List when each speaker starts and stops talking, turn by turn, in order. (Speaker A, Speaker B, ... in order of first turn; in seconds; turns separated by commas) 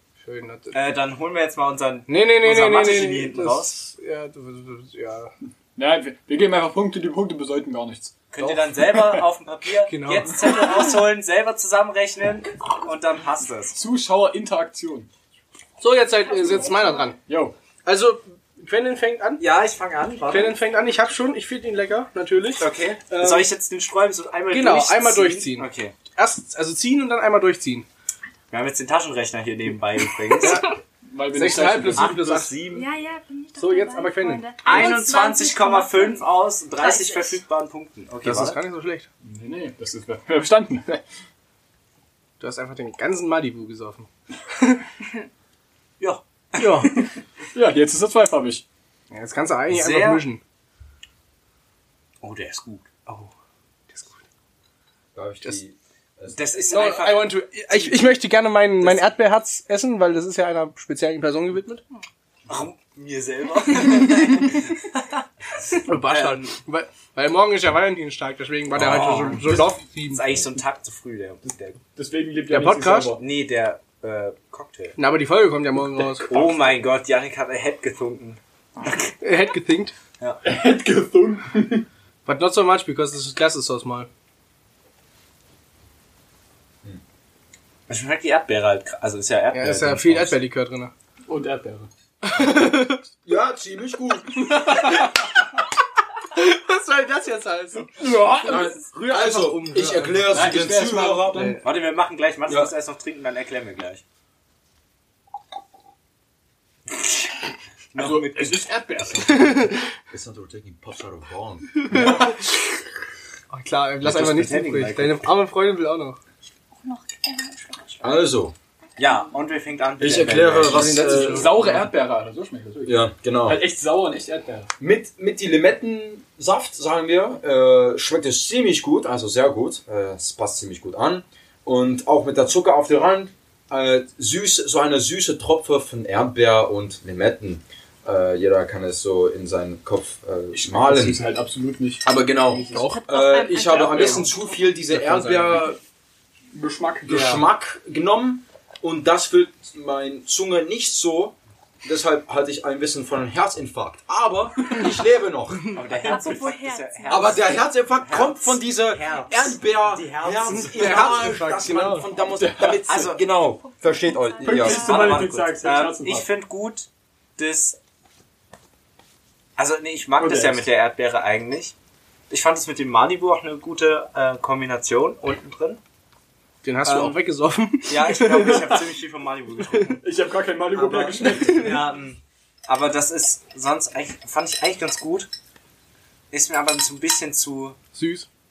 Speaker A: 0.2-0.8, Speaker B: 0.7-3.8, Speaker A: 2.1-5.3, Speaker C: 5.8-8.2, Speaker B: 8.3-13.8, Speaker A: 9.9-10.6, Speaker C: 13.7-15.1, Speaker A: 15.8-17.2, Speaker D: 16.2-17.1, Speaker C: 17.3-17.5, Speaker A: 17.9-19.4, Speaker B: 19.4-20.6, Speaker A: 20.3-23.5, Speaker B: 22.6-25.9, Speaker A: 24.5-27.9, Speaker B: 28.5-30.7, Speaker A: 30.4-30.7, Speaker C: 31.1-32.2, Speaker A: 31.3-32.6, Speaker B: 31.9-32.9, Speaker D: 32.7-37.4, Speaker A: 33.6-34.9, Speaker B: 34.6-38.6, Speaker A: 38.2-39.1, Speaker C: 39.2-41.0, Speaker A: 42.4-44.1, Speaker B: 46.0-47.1, Speaker A: 46.6-46.9, Speaker C: 47.5-48.6, Speaker A: 49.1-50.4, Speaker B: 49.7-50.2, Speaker B: 52.2-53.3, Speaker E: 55.1-56.4, Speaker B: 56.3-58.2, Speaker A: 56.7-61.8, Speaker B: 58.8-59.1, Speaker B: 62.5-66.5, Speaker A: 65.8-70.4, Speaker B: 68.7-71.8, Speaker C: 72.0-73.2, Speaker A: 72.5-73.2, Speaker B: 73.2-75.0, Speaker A: 75.0-76.3, Speaker B: 76.0-79.1, Speaker A: 79.2-80.0, Speaker C: 80.4-81.9, Speaker A: 82.3-84.1, Speaker B: 87.9-90.4, Speaker A: 89.5-90.9, Speaker C: 91.3-91.9, Speaker A: 92.2-93.0, Speaker E: 93.2-94.9, Speaker C: 94.5-94.9, Speaker A: 96.3-100.4, Speaker C: 98.0-98.8, Speaker E: 98.4-101.6, Speaker C: 100.3-101.6, Speaker A: 101.3-101.6, Speaker B: 101.6-104.0, Speaker E: 102.5-102.7, Speaker B: 107.9-108.7, Speaker C: 108.0-109.7, Speaker E: 110.1-112.3, Speaker A: 111.9-112.4, Speaker A: 113.5-116.2, Speaker B: 114.0-115.3, Speaker D: 116.8-118.2, Speaker E: 118.0-118.5, Speaker B: 119.0-121.2, Speaker E: 120.0-121.6, Speaker A: 120.6-121.7, Speaker C: 120.9-124.7, Speaker E: 122.8-123.6, Speaker E: 124.8-141.2, Speaker C: 140.5-142.2, Speaker E: 142.0-145.8, Speaker A: 142.7-143.0, Speaker D: 142.7-144.7, Speaker A: 144.9-145.7, Speaker C: 146.5-147.4, Speaker E: 147.1-155.7, Speaker B: 155.7-161.3, Speaker D: 155.9-157.6, Speaker C: 156.0-156.4, Speaker E: 157.1-164.9, Speaker A: 160.5-162.1, Speaker C: 162.2-163.1, Speaker B: 162.9-163.2, Speaker D: 163.6-165.2, Speaker C: 164.4-166.3, Speaker B: 164.5-167.8, Speaker B: 169.6-171.7, Speaker C: 170.2-170.7, Speaker B: 172.3-175.8, Speaker A: 176.6-178.8, Speaker B: 176.8-177.2, Speaker B: 177.9-180.0, Speaker A: 179.7-179.9, Speaker C: 180.0-181.8, Speaker B: 180.7-185.3, Speaker A: 181.2-181.8, Speaker B: 186.3-187.8, Speaker A: 187.9-188.3